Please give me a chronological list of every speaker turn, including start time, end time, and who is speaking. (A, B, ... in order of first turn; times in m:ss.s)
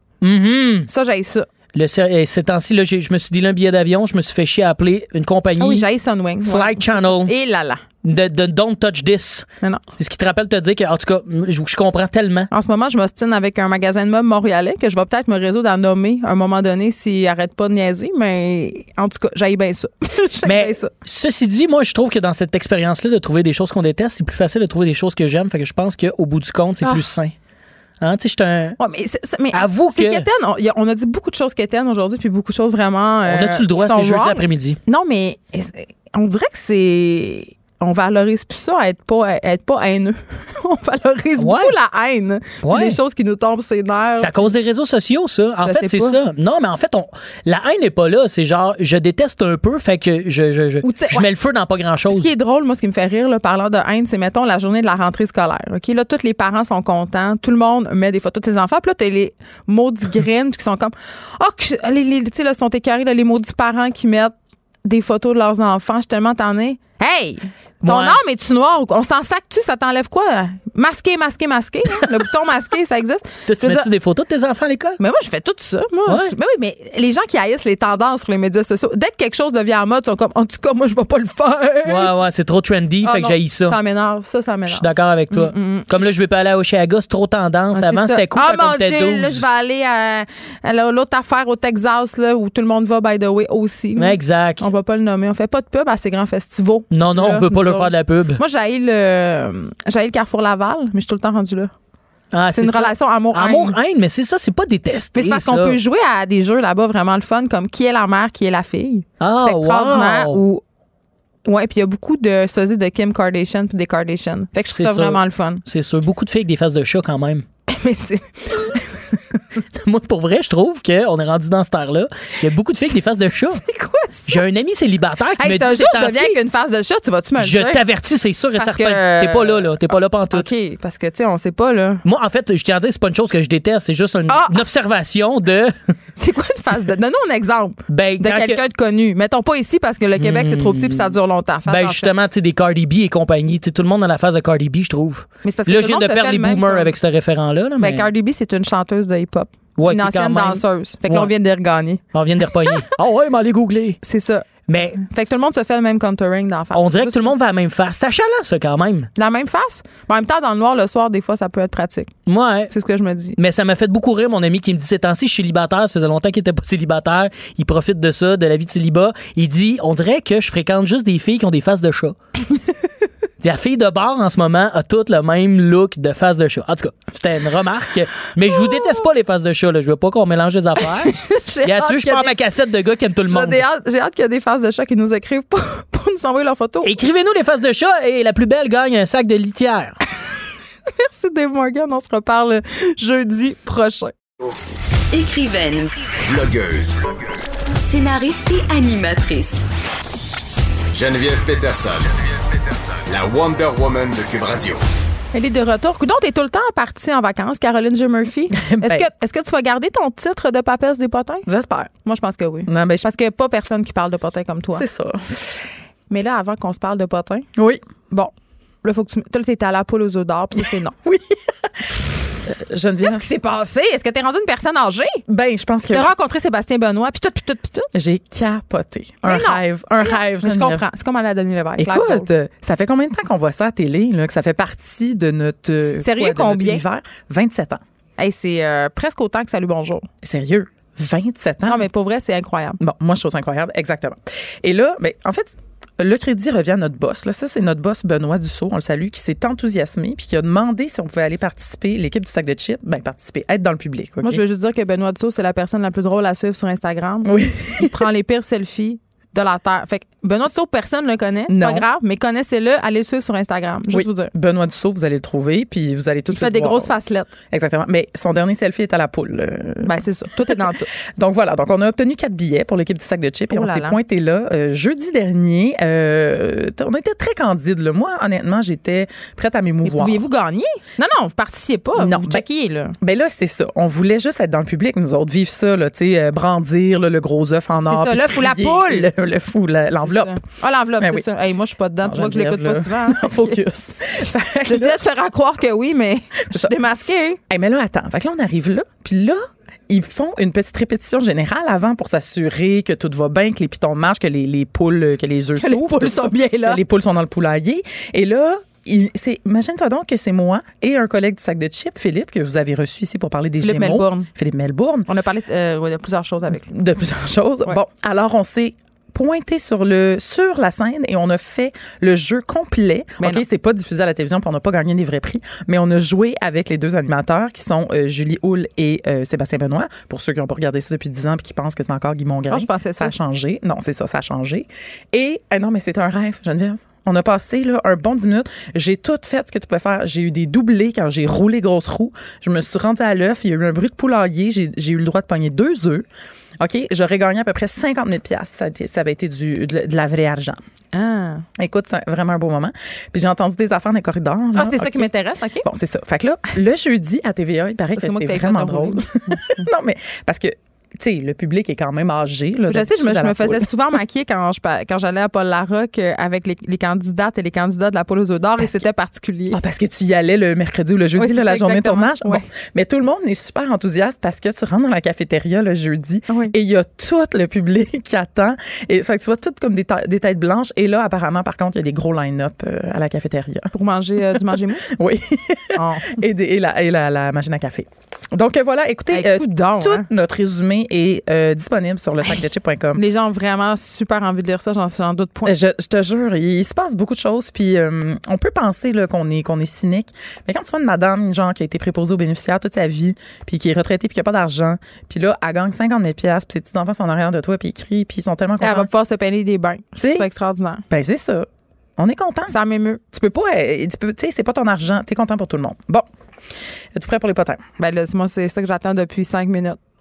0:00.2-0:00.9 A
0:00.9-0:01.5 B
0:01.8-0:05.9 A
0:05.6-0:07.8 B
0:06.4-0:07.3 A
0:08.0-0:09.5 A
0:10.0-0:12.5 A
0:12.5-0:20.9 B
0:20.4-0:27.4 A
0:28.0-0:28.8 A
0:28.8-0:44.3 B
0:29.5-0:30.2 A
0:33.3-0:34.8 A
0:41.4-0:41.7 A
0:42.6-0:43.0 A
0:44.2-0:52.3 A
0:45.6-0:46.2 B
0:50.8-0:51.3 B
0:52.1-1:13.9 B
1:07.8-1:08.2 A
1:13.5-1:15.0 A
1:15.0-1:22.1 B
1:16.1-1:16.3 A
1:21.8-1:23.8 A
1:23.0-1:25.9 B
1:24.7-1:29.4 A
1:27.7-1:41.7 B
1:34.0-1:34.7 A
1:36.9-1:38.4 A
1:42.3-1:45.8 A
1:42.5-1:43.8 B
1:45.1-1:50.6 B
1:49.2-1:50.4 A
1:51.4-1:55.6 B
1:54.7-1:57.4 A
1:57.7-1:59.2 B
1:59.8-2:03.6 A
2:03.6-2:04.4 B
2:04.3-2:06.4 A
2:05.4-2:07.8 B
2:07.4-2:10.5 A
2:08.6-2:09.8 B
2:10.3-2:12.0 B
2:12.0-2:15.7 A
2:14.3-2:14.6 B
2:16.2-2:22.1 B
2:17.9-2:18.6 A
2:20.2-2:21.1 A
2:21.7-2:28.1 A
2:25.4-2:26.9 B
2:27.8-2:32.9 B
2:29.8-2:31.3 A
2:32.1-2:34.0 A
2:34.0-2:37.3 B
2:34.7-2:35.0 A
2:36.7-2:39.1 A
2:39.2-2:42.2 B
2:42.3-2:42.7 A
2:42.7-2:43.4 B
2:43.4-2:52.2 A
2:53.4-3:03.6 A
3:01.0-3:02.4 B
3:03.3-3:07.0 B
3:06.8-3:10.0 A
3:10.9-3:14.2 B
3:15.1-3:16.0 C
3:16.3-3:17.1 D
3:17.8-3:19.6 C
3:20.9-3:24.8 D
3:25.3-3:31.5 B
3:28.5-3:29.1 E
3:31.5-3:31.9 E
3:32.0-3:34.9 B
3:32.7-3:33.1 E
3:34.7-3:35.2 E
3:36.1-3:37.5 B
3:37.6-3:37.8 E
3:38.1-3:41.0 B
3:40.6-3:43.2 E
3:43.0-3:45.2 B
3:45.3-3:46.1 E
3:45.9-3:47.9 B
3:47.9-3:50.8 E
3:49.2-3:52.3 B
3:51.8-3:57.8 E
3:56.0-3:56.8 B
3:58.2-4:00.1 B
4:00.2-4:01.9 E
4:01.6-4:02.8 B
4:02.8-4:14.4 E
4:14.2-4:24.3 B
4:17.2-4:18.1 E
4:21.5-4:21.9 E
4:23.9-4:26.9 E
4:26.3-4:27.4 B
4:27.5-4:40.2 E
4:29.8-4:30.9 B
4:33.5-4:34.0 B
4:39.8-4:43.0 B
4:42.0-4:42.4 E
4:43.0-4:50.4 E
4:47.8-4:49.1 B
4:50.0-4:53.6 B
4:52.0-4:55.0 E
4:54.2-4:57.4 B
4:57.5-5:15.1 E
5:05.6-5:06.8 B
5:13.6-5:14.3 B
5:15.1-5:16.7 B
5:16.5-5:46.0 E
5:23.2-5:23.5 B
5:32.5-5:33.2 B
5:46.6-5:50.6 E
5:50.9-5:51.5 B
5:51.6-5:55.1 E
5:54.6-5:55.7 B
5:55.6-6:03.7 E
5:58.0-5:59.6 B
6:02.7-6:09.6 B
6:09.5-6:33.0 E
6:11.2-6:12.4 B
6:16.3-6:16.5 B
6:23.7-6:24.9 B
6:25.8-6:26.2 B
6:29.1-6:30.1 B
6:32.9-6:35.6 B
6:35.5-6:48.9 E
6:48.6-6:50.8 B
6:50.0-6:50.3 E
6:50.9-6:51.5 E
6:52.0-6:52.6 E
6:52.5-6:53.0 B
6:53.1-6:56.1 E
6:57.0-6:57.6 E
6:57.8-6:59.8 B